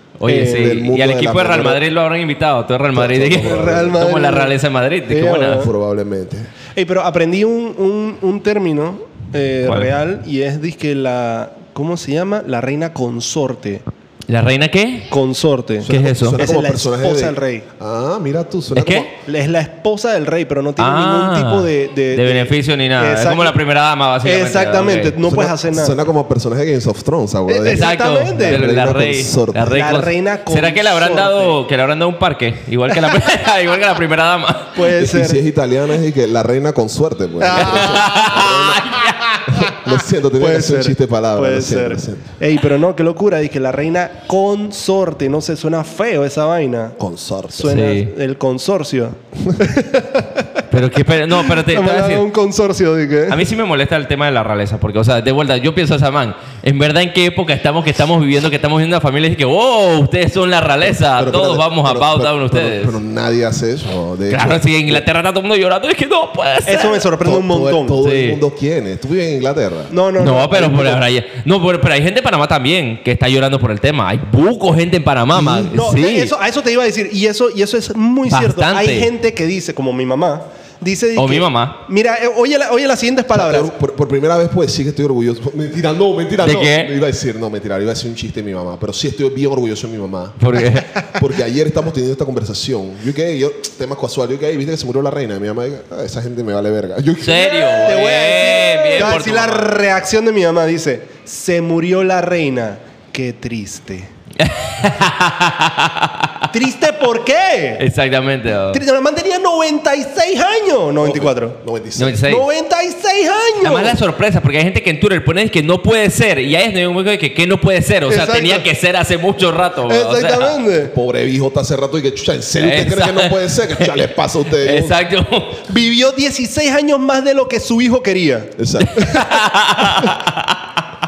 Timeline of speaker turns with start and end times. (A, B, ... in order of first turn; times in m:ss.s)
0:00.2-0:05.7 A
0:00.3-0:00.7 B
0:00.4-0:01.8 C
0:02.9-0:04.0 C
0:03.3-0:04.6 B
0:05.1-0:05.7 B
0:05.5-0:06.5 C
0:06.8-0:13.8 B
0:09.6-0:09.9 A
0:14.3-0:15.1 A
0:15.1-0:17.7 B
0:15.8-0:19.1 C
0:15.9-0:16.4 A
0:18.8-0:19.1 A
0:19.2-0:23.6 B
0:20.8-0:25.2 A
0:24.2-0:26.0 B
0:25.2-0:29.8 C
0:27.5-0:28.6 B
0:27.7-0:34.8 A
0:29.7-0:31.6 B
0:34.8-0:35.4 B
0:34.9-0:39.0 C
0:37.4-0:38.2 B
0:37.6-0:39.4 A
0:39.0-0:39.7 B
0:39.5-0:42.3 C
0:40.4-0:47.0 B
0:47.0-0:47.7 C
0:47.6-0:50.6 B
0:47.6-0:48.1 A
0:50.7-0:52.2 A
0:51.4-0:53.4 B
0:53.3-1:03.0 A
1:00.8-1:05.0 C
1:04.3-1:07.1 A
1:06.7-1:08.0 B
1:07.2-1:09.9 C
1:08.0-1:08.4 A
1:09.9-1:11.0 B
1:10.2-1:16.3 A
1:15.3-1:15.7 C
1:15.7-1:23.7 B
1:18.3-1:19.1 A
1:21.2-1:21.8 A
1:23.3-1:37.9 C
1:26.4-1:26.9 A
1:30.4-1:30.9 A
1:37.2-1:39.9 A
1:37.7-1:44.1 B
1:44.4-1:46.5 A
1:46.5-1:47.9 B
1:47.8-1:48.8 A
1:48.7-1:51.6 B
1:51.0-1:52.2 C
1:52.0-1:52.5 A
1:52.2-1:54.0 B
1:53.6-2:00.6 A
1:58.1-1:58.7 B
1:59.9-2:00.9 B
2:00.8-2:05.0 C
2:02.6-2:04.0 A
2:04.6-2:05.6 A
2:05.6-2:09.4 B
2:08.6-2:09.2 C
2:08.8-2:10.6 A